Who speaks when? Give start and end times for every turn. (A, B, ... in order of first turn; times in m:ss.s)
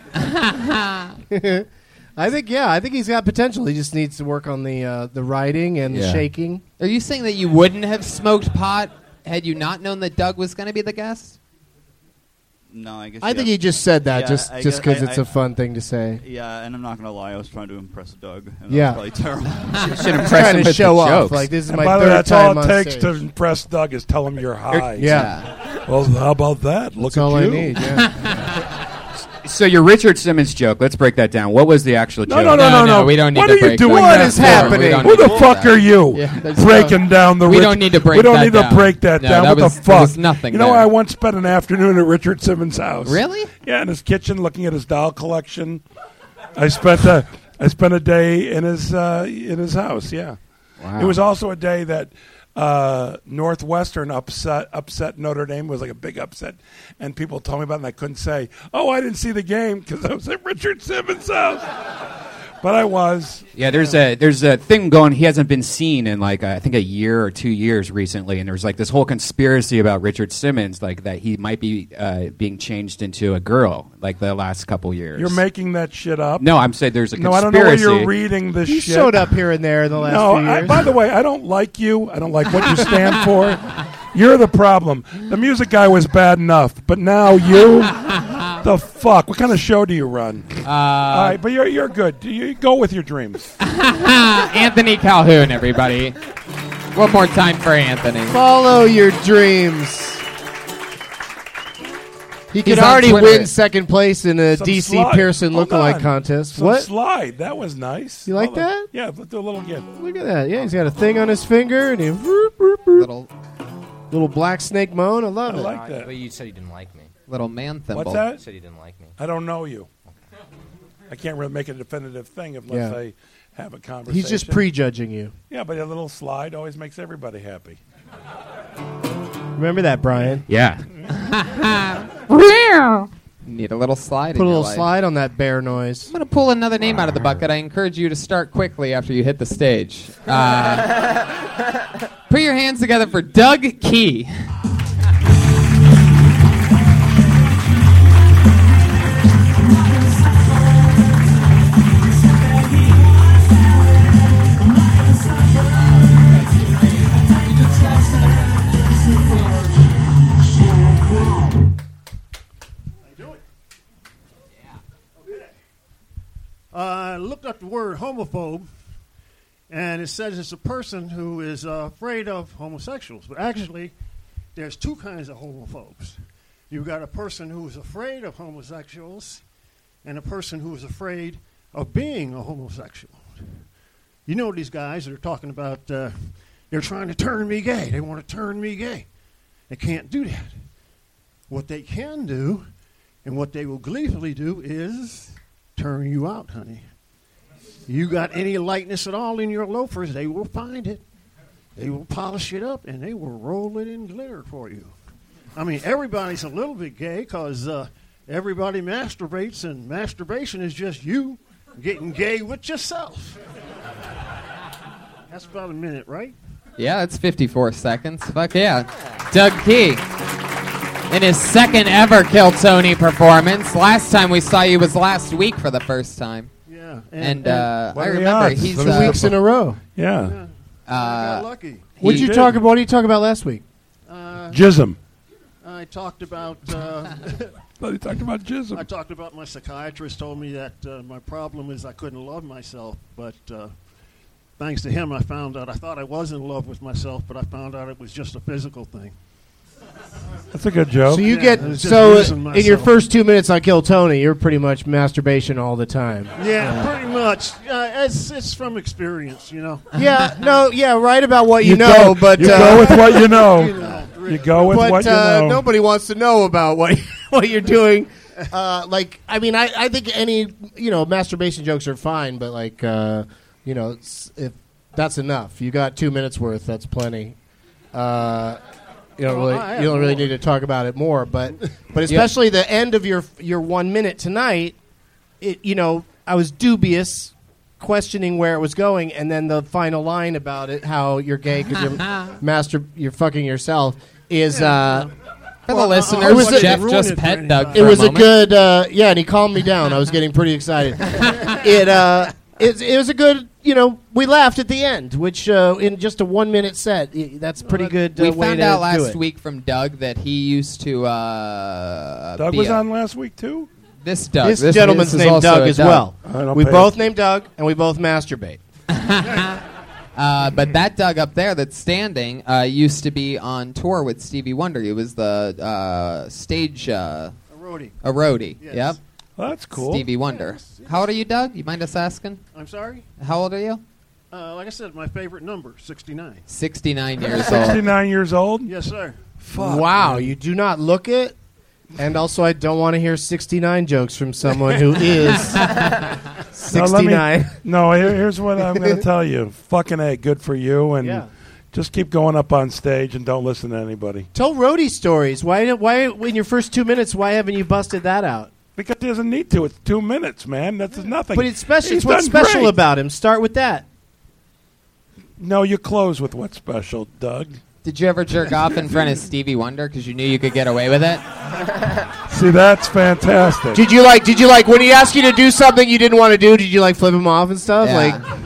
0:00.2-0:01.1 A
0:01.3-0:06.6 B
0:05.9-0:06.2 C
0:06.8-0:11.4 A
0:12.7-0:15.2 D
0:13.2-0:16.2 B
0:16.2-0:20.1 D
0:18.7-0:19.0 B
0:19.8-0:21.5 C
0:20.2-0:23.2 B
0:21.6-0:28.0 E
0:24.9-0:25.3 B
0:25.0-0:25.5 A
0:27.0-0:28.1 B
0:29.4-0:32.7 C
0:32.2-0:45.8 E
0:32.5-0:40.9 A
0:33.8-0:35.3 B
0:43.0-0:43.5 A
0:46.6-0:50.4 E
0:50.8-0:51.1 A
0:50.9-1:01.7 E
1:02.6-1:03.4 E
1:03.5-1:15.4 C
1:15.1-1:16.5 E
1:16.4-1:18.1 C
1:17.1-1:19.2 E
1:18.6-1:20.9 B
1:20.0-1:27.9 E
1:28.0-1:28.5 A
1:28.6-1:30.5 E
1:30.6-1:31.4 A
1:31.1-1:33.5 E
1:33.6-1:36.2 A
1:36.9-1:38.4 A
1:38.3-1:40.2 B
1:42.5-1:46.9 B
1:42.6-1:43.5 A
1:44.5-1:49.9 E
1:48.3-1:48.9 B
1:50.0-1:53.1 B
1:52.9-1:53.3 A
1:54.1-1:55.8 B
1:55.4-1:56.1 E
1:55.5-1:57.1 F
1:57.3-1:58.2 A
1:57.9-1:58.4 E
1:58.3-1:59.2 F
1:59.2-1:59.9 E
2:01.1-2:04.6 E
2:02.7-2:03.0 B
2:04.1-2:05.3 B
2:05.5-2:07.8 E
2:09.6-2:10.4 B
2:10.5-2:10.8 C
2:11.1-2:14.9 A
2:14.3-2:16.1 B
2:16.1-2:21.2 A
2:22.3-2:24.3 A
2:43.0-2:43.4 G
2:46.7-2:48.7 G
2:49.7-2:53.9 G
2:54.5-2:56.2 G
2:56.7-2:59.4 G
3:00.0-3:03.6 G
3:04.2-3:09.1 G
3:09.7-3:10.6 G
3:11.5-3:12.7 G
3:13.2-3:16.8 G
3:17.9-3:21.0 G
3:21.8-3:24.9 G
3:25.6-3:33.4 G
3:35.3-3:36.3 G
3:36.8-3:40.0 A
3:41.1-3:46.5 A
3:46.7-3:47.8 G
3:47.2-3:49.3 A
3:47.9-3:49.4 E
3:48.6-3:49.8 B
3:50.0-3:50.4 E
3:50.2-3:51.9 G
3:50.9-3:52.4 A
3:52.0-3:53.6 B
3:52.0-3:52.6 E
3:54.1-3:54.6 G
3:54.5-3:55.0 E
3:55.6-3:57.6 G
3:57.8-3:58.9 E
3:58.7-4:03.7 G
4:04.6-4:09.2 G
4:10.5-4:11.4 E
4:11.1-4:16.9 B
4:11.2-4:13.0 G
4:16.3-4:20.2 G
4:20.0-4:23.2 B
4:21.6-4:25.6 E
4:22.4-4:24.9 G
4:24.7-4:37.4 B
4:37.9-4:38.6 B
4:39.2-4:44.8 B
4:39.2-4:40.4 G
4:45.4-4:55.1 B
4:54.5-4:55.1 G
4:55.7-4:58.0 G
4:55.7-4:58.4 A
4:56.2-4:56.8 B
4:57.7-5:09.2 B
5:07.6-5:08.0 G
5:08.1-5:12.8 A
5:12.4-5:13.7 E
5:14.0-5:16.1 A
5:14.4-5:18.6 B
5:16.2-5:16.9 E
5:18.9-5:19.5 A
5:19.2-5:19.5 G
5:20.2-5:27.3 A
5:27.5-5:28.0 G
5:28.0-5:29.0 A
5:28.6-5:29.0 G
5:29.4-5:30.1 E
5:29.7-5:32.4 A
5:30.1-5:31.1 G
5:32.5-5:33.0 G
5:33.2-5:33.8 A
5:34.3-5:36.4 G
5:36.5-5:37.9 A
5:37.3-5:38.7 E
5:38.6-5:39.2 G
5:39.4-5:40.2 E
5:39.5-5:41.4 B
5:42.0-5:46.0 B
5:46.5-5:47.6 B
5:46.7-5:54.3 E
5:48.7-5:49.0 B
5:51.0-5:51.3 B
5:54.3-5:58.5 B
5:58.8-6:02.8 E
6:01.3-6:03.8 B
6:05.4-6:07.6 E
6:07.8-6:11.2 A
6:12.3-6:13.8 E
6:13.7-6:18.2 B
6:17.8-6:18.2 A